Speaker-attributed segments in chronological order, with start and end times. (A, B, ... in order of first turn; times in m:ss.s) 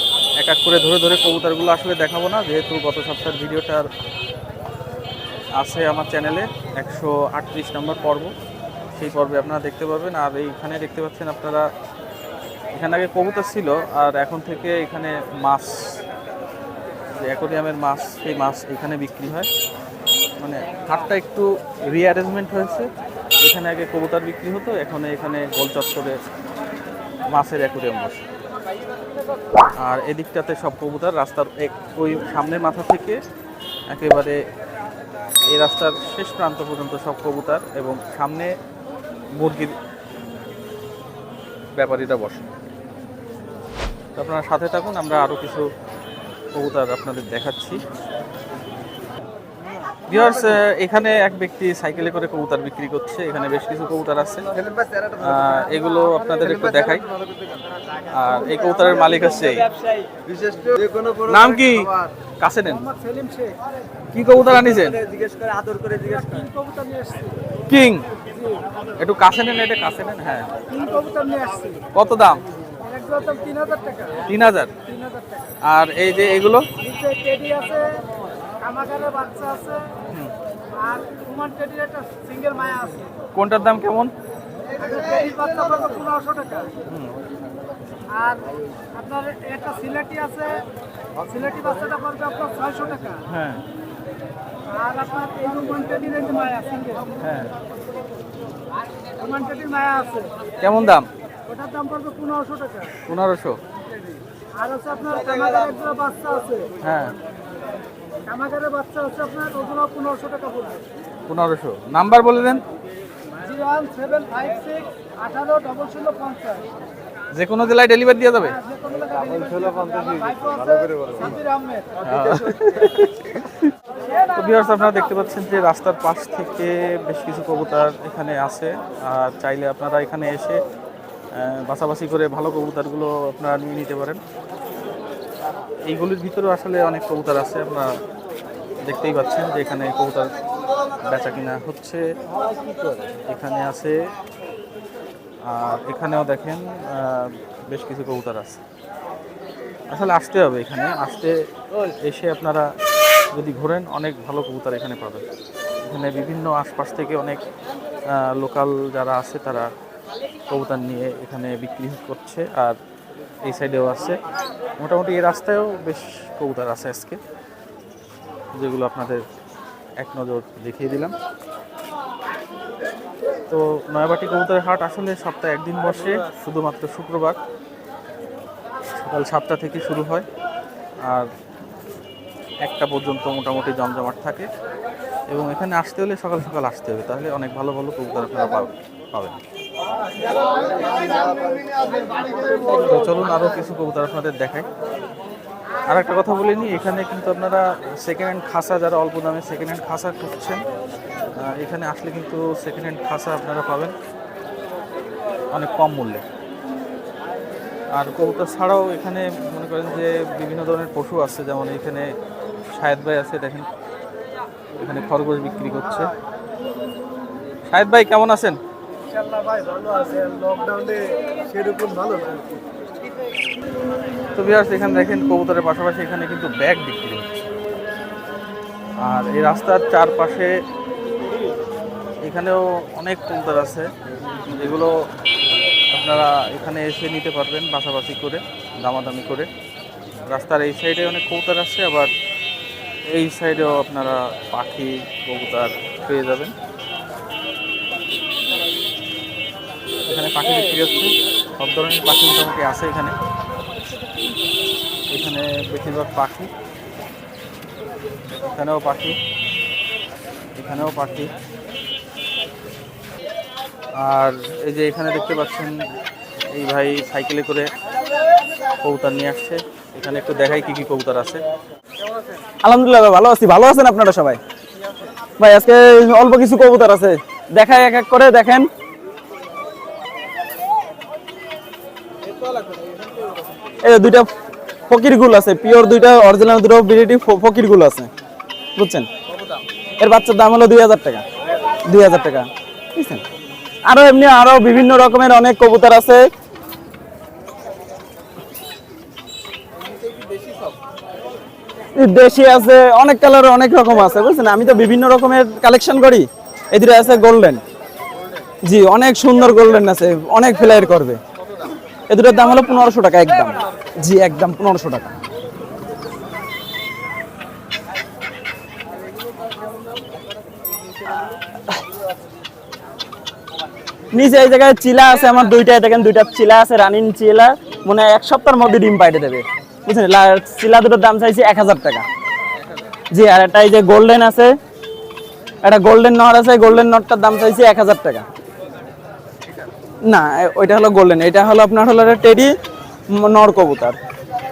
0:00.4-0:03.9 A
0:05.6-0:08.3 A
0:09.0-0:11.7 A
0:12.7-0:16.0 A
0:17.2-0:19.5 A
0:20.4-0:22.9 A
0:23.4-0:26.2 A
0:27.3-0:28.2 A
0:29.8-0:33.2 A
0:33.9-0:34.4 A
0:35.5-0:38.5 A
0:39.4-0:39.8 A
0:41.7-0:42.5 A
0:44.2-0:45.7 A
0:46.5-0:47.8 A
0:50.1-0:54.5 A
0:55.2-0:57.1 A
0:58.1-0:59.7 A
1:01.2-1:02.9 A
1:03.0-1:03.5 B
1:04.1-1:05.0 A
1:06.1-1:07.3 B
1:07.7-1:08.0 A
1:09.0-1:10.5 A
1:10.7-1:11.8 B
1:11.9-1:12.4 A
1:12.8-1:14.1 B
1:14.2-1:14.7 A
1:15.6-1:16.6 A
1:16.9-1:18.0 B
1:18.6-1:19.8 B
1:20.8-1:23.0 B
1:23.4-1:24.1 A
1:24.8-1:26.7 B
1:26.9-1:27.1 A
1:28.2-1:28.5 B
1:29.0-1:30.6 B
1:31.2-1:33.1 B
1:33.3-1:33.6 A
1:34.7-1:37.0 B
1:37.2-1:37.6 A
1:39.2-1:40.3 B
1:40.6-1:41.1 A
1:41.5-1:42.9 B
1:43.0-1:43.6 A
1:44.6-1:46.7 B
1:46.8-1:47.1 A
1:48.3-1:50.8 B
1:51.3-1:52.6 A
1:53.4-1:56.6 B
1:57.3-1:58.6 A
1:58.7-2:01.8 B
2:02.0-2:03.7 A
2:04.3-2:10.6 A
2:11.3-2:14.2 A
2:15.9-2:17.9 A
2:18.8-2:20.3 A
2:21.0-2:22.0 A
2:23.3-2:24.0 A
2:25.4-2:28.6 A
2:29.9-2:32.7 A
2:33.3-2:35.2 A
2:35.8-2:37.4 A
2:38.1-2:39.7 A
2:40.5-2:42.8 A
2:43.4-2:44.2 A
2:44.8-2:47.2 A
2:48.6-2:49.2 A
2:50.0-2:51.1 A
2:53.5-2:57.4 A
2:59.0-3:00.3 A
3:02.6-3:04.5 A
3:05.3-3:09.3 A
3:12.7-3:14.7 A
3:15.9-3:20.6 A
3:21.4-3:23.9 A
3:25.5-3:26.2 A
3:27.9-3:32.1 A
3:32.7-3:33.7 A
3:34.8-3:36.1 A
3:37.7-3:38.6 A
3:44.4-3:47.5 A
3:49.0-3:50.5 A
3:52.2-3:53.9 A
3:54.5-3:55.0 A
3:55.9-3:59.5 A
4:00.3-4:02.1 A
4:03.1-4:06.5 A
4:10.1-4:13.2 A
4:15.1-4:16.5 A
4:18.4-4:19.2 A
4:20.6-4:21.3 A
4:24.0-4:25.8 A
4:26.5-4:27.7 A
4:28.8-4:31.4 A
4:32.6-4:34.4 C
4:35.4-4:38.7 C
4:43.8-4:44.3 C
4:44.9-4:48.1 C
4:48.8-4:49.1 C
4:50.0-4:51.2 C
4:51.9-4:53.2 C
4:53.8-4:56.2 C
5:02.0-5:07.6 C
5:08.6-5:11.2 C
5:12.1-5:15.1 C
5:24.1-5:32.0 C
5:33.1-5:34.6 C
5:35.6-5:38.2 C
5:40.1-5:42.5 C
5:43.1-5:44.0 C